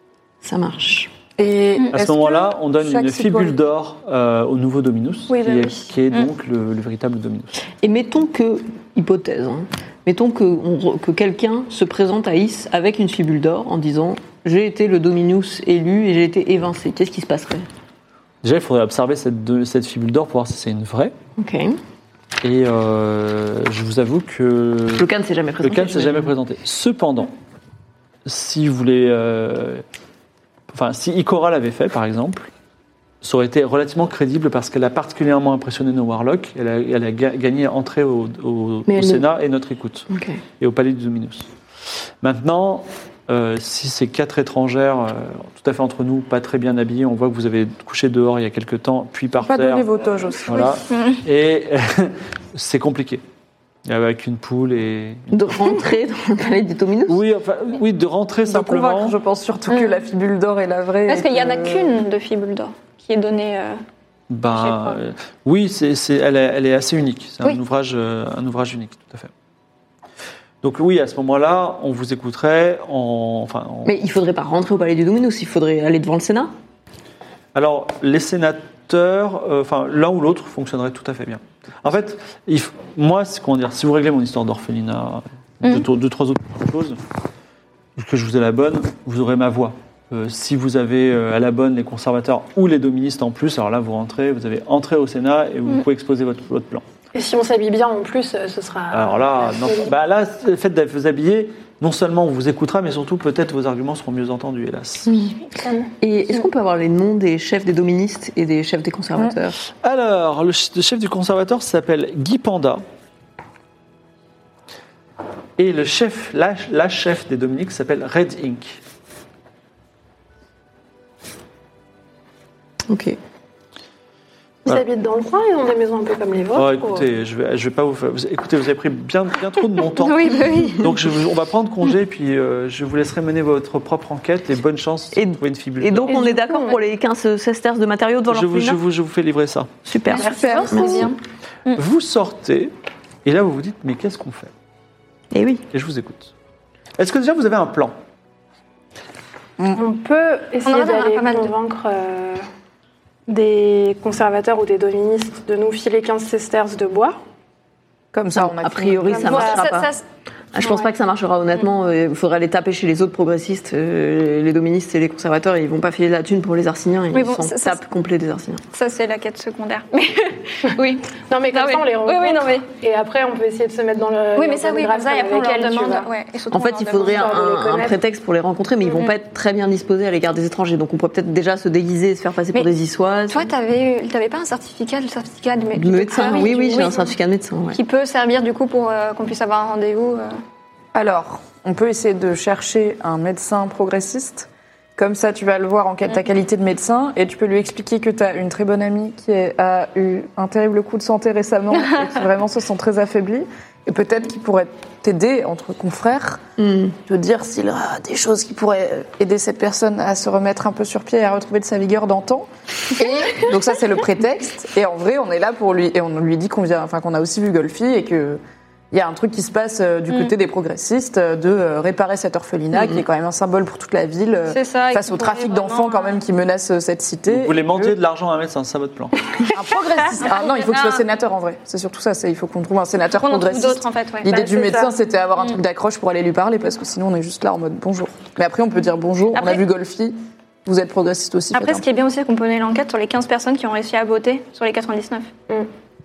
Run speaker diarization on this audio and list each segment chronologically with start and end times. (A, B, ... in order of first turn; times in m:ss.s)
0:00.4-0:01.1 A
0:01.4-0:03.6 B
0:01.9-0:07.5 C
0:05.3-0:06.3 D
0:07.8-0:17.7 A
0:18.4-0:21.1 C
0:21.4-0:21.8 A
0:22.4-0:25.1 C
0:24.9-0:26.3 A
0:25.6-0:27.3 C
0:28.2-0:29.8 C
0:30.7-0:32.5 C
0:33.2-0:40.1 C
0:38.9-0:39.2 A
0:40.1-0:40.4 A
0:40.6-0:41.5 C
0:42.2-0:49.8 C
0:49.4-0:50.7 B
0:50.4-0:53.2 C
0:50.9-0:51.2 D
0:53.8-0:55.8 C
0:55.3-0:57.2 A
0:57.1-0:59.2 C
0:58.4-1:02.0 B
0:59.7-1:00.0 D
1:01.1-1:03.8 D
1:04.3-1:09.3 C
1:04.5-1:05.0 D
1:10.6-1:13.9 C
1:13.8-1:16.5 A
1:17.5-1:27.0 C
1:28.0-1:36.8 C
1:37.1-1:39.9 E
1:38.9-1:45.1 C
1:45.1-1:45.3 A
1:46.0-1:49.6 A
1:49.8-1:52.8 C
1:55.6-1:58.8 C
2:02.9-2:03.2 A
2:04.6-2:07.1 E
2:06.5-2:16.2 C
2:09.9-2:11.1 D
2:15.1-2:18.8 A
2:16.1-2:16.8 E
2:18.3-2:19.7 C
2:19.8-2:21.0 A
2:20.1-2:21.8 D
2:20.2-2:20.8 B
2:20.2-2:21.1 E
2:21.7-2:22.7 C
2:23.2-2:24.5 C
2:25.3-2:25.6 A
2:25.7-2:26.3 C
2:27.0-2:27.9 C
2:29.7-2:32.4 E
2:30.6-2:31.5 D
2:33.3-2:37.2 E
2:38.1-2:39.6 B
2:38.4-2:39.9 A
2:39.2-2:40.0 D
2:39.3-2:39.6 E
2:40.5-2:48.6 A
2:47.1-2:47.8 D
2:48.7-2:52.6 D
2:51.2-2:56.1 E
2:54.3-2:57.4 D
2:56.5-3:03.5 A
2:56.9-2:58.0 E
3:03.3-3:07.1 D
3:05.7-3:07.8 A
3:07.7-3:10.4 D
3:10.9-3:26.4 B
3:26.6-3:26.9 A
3:27.0-3:48.0 B
3:42.7-3:43.0 A
3:44.5-3:46.2 D
3:47.3-3:49.3 C
3:49.5-4:01.8 B
3:50.2-3:51.0 D
3:53.2-3:54.9 D
3:59.3-3:59.6 D
4:01.5-4:05.3 D